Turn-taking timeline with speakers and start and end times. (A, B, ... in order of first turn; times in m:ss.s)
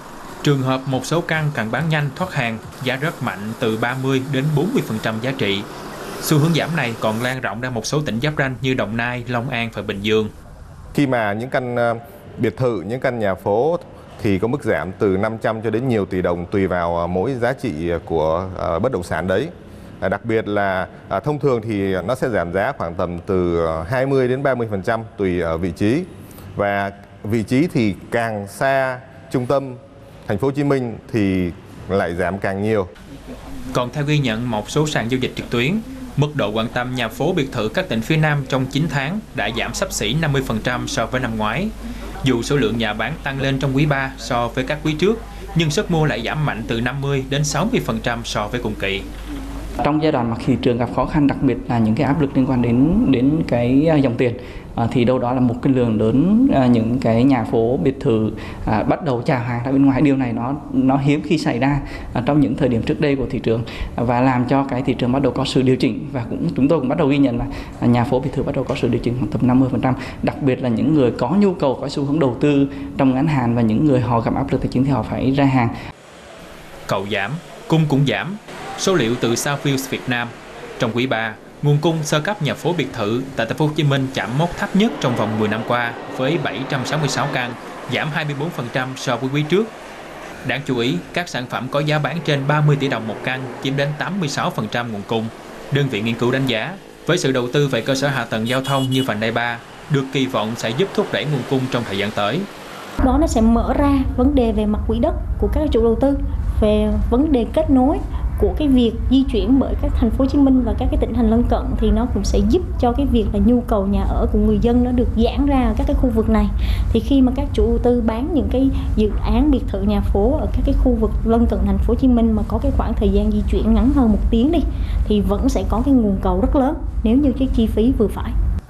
0:00.4-0:05.7 A
0:06.2-0:10.3 A
0:10.9-0:32.9 B
0:33.7-0:49.0 A
0:49.8-0:54.3 C
0:54.8-1:00.5 C
1:01.1-1:01.7 C
1:02.3-1:03.3 C
1:03.6-1:04.0 D
1:04.7-1:05.0 D
1:05.1-1:07.4 C
1:08.0-1:15.7 C
1:09.9-1:10.3 D
1:16.9-1:29.7 A
1:30.4-1:42.5 A
1:43.0-2:08.3 D